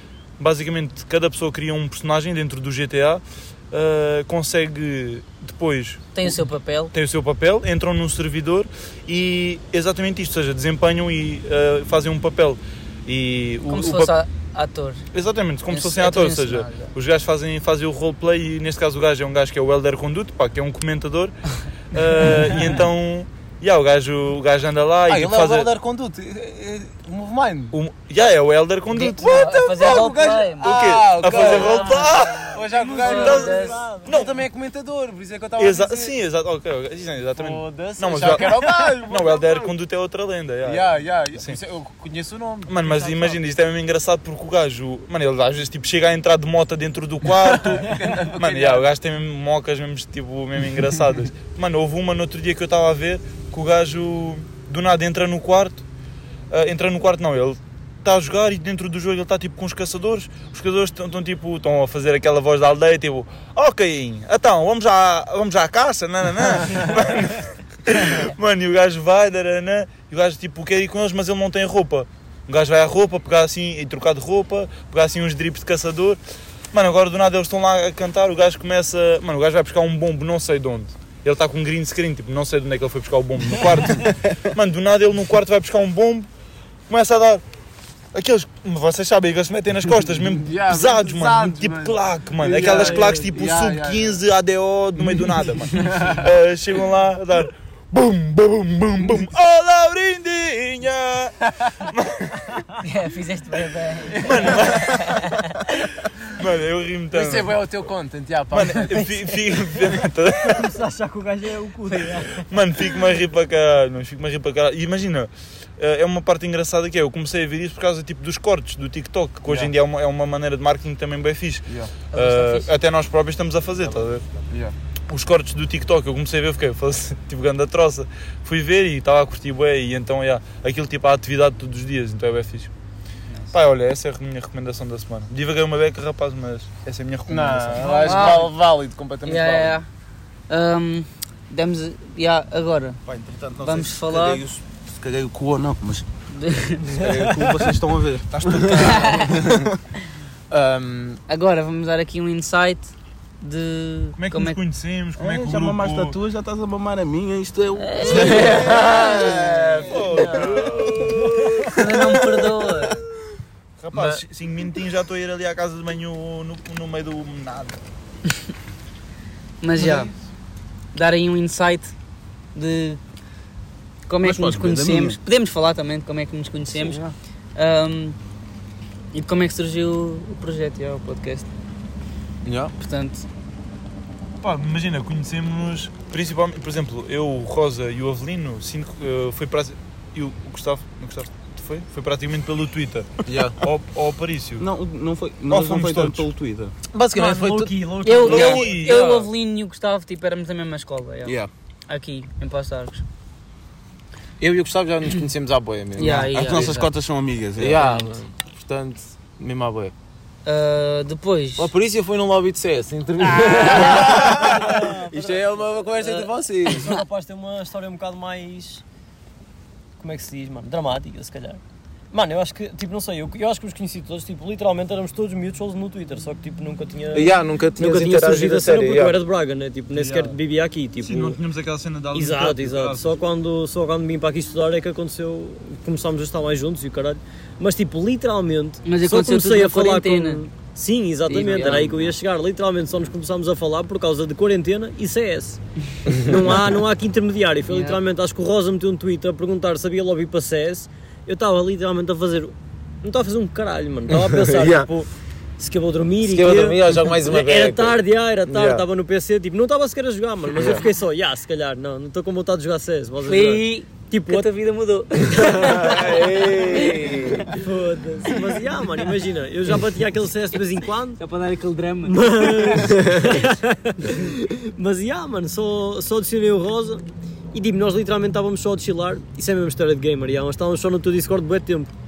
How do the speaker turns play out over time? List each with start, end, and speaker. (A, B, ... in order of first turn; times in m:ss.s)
0:00.4-0:14.1 A
0:06.1-0:06.9 B
0:13.7-0:15.0 B
0:15.1-0:21.4 A
0:15.7-0:16.9 B
0:21.9-0:25.7 A
0:25.1-0:27.8 C
0:27.7-0:34.3 A
0:28.9-0:30.7 B
0:29.3-0:36.1 C
0:31.2-0:32.2 B
0:32.7-0:34.2 D
0:33.0-0:33.8 B
0:35.6-0:41.6 A
0:37.3-0:39.7 C
0:40.6-0:43.4 C
0:42.7-0:55.8 A
0:47.3-0:48.9 C
0:56.5-1:16.2 A
1:16.7-1:26.3 A
1:26.9-1:27.4 A
1:28.1-1:42.6 A
1:30.2-1:34.2 C
1:35.7-1:36.2 C
1:39.0-1:39.3 C
1:42.8-1:45.6 B
1:44.1-1:45.4 A
1:46.2-1:47.6 A
1:47.1-1:49.1 C
1:48.5-1:50.8 A
1:50.4-1:52.4 D
1:52.4-2:04.2 A
1:59.5-1:59.7 C
2:02.1-2:02.7 B
2:05.1-2:12.7 A
2:13.5-2:18.4 A
2:17.3-2:19.8 C
2:17.8-2:18.5 B
2:19.2-2:19.9 B
2:20.5-2:23.0 B
2:23.0-2:26.1 E
2:23.6-2:24.4 B
2:26.4-2:27.5 B
2:26.8-2:29.7 E
2:28.4-2:29.3 A
2:28.8-2:29.4 B
2:30.5-2:31.2 C
2:31.3-2:34.6 B
2:34.2-2:36.2 A
2:35.2-2:39.8 E
2:37.8-2:39.5 B
2:38.1-2:40.6 C
2:39.9-2:42.4 A
2:40.1-2:40.9 B
2:41.6-2:43.0 B
2:43.8-2:47.8 A
2:43.9-2:44.2 C
2:49.6-2:50.1 B
2:50.9-2:51.9 B
2:52.5-2:53.0 B
2:54.1-2:57.0 B
2:54.2-2:55.2 E
2:56.7-2:57.1 C
2:57.6-2:58.2 B
2:59.1-3:01.5 B
3:02.4-3:02.7 C
3:02.8-3:03.2 B
3:04.4-3:14.7 A
3:13.2-3:13.6 C
3:14.6-3:16.7 E
3:15.5-3:16.3 A
3:16.9-3:17.7 C
3:17.1-3:18.9 D
3:18.0-3:21.3 B
3:18.2-3:19.3 A
3:21.2-3:21.5 E
3:21.9-3:23.0 B
3:24.4-3:26.9 C
3:26.0-3:26.9 B
3:26.0-3:27.8 E
3:27.6-3:29.9 C
3:27.8-3:28.1 B
3:30.4-3:31.7 B
3:31.6-3:36.9 C
3:33.4-3:34.1 B
3:33.6-3:38.8 D
3:40.0-3:51.4 D
3:47.1-3:49.2 C
3:49.9-3:50.4 A
3:51.0-3:53.2 A
3:52.1-4:05.6 D
3:58.8-4:00.4 B
4:01.3-4:02.1 B
4:06.1-4:24.5 D
4:07.7-4:08.0 B
4:14.1-4:14.9 C
4:16.2-4:18.8 C
4:20.6-4:20.8 C
4:23.2-4:27.5 B
4:25.4-4:27.5 C
4:25.4-4:25.9 D
4:27.5-4:31.2 D
4:31.2-4:33.1 B
4:32.0-4:41.9 D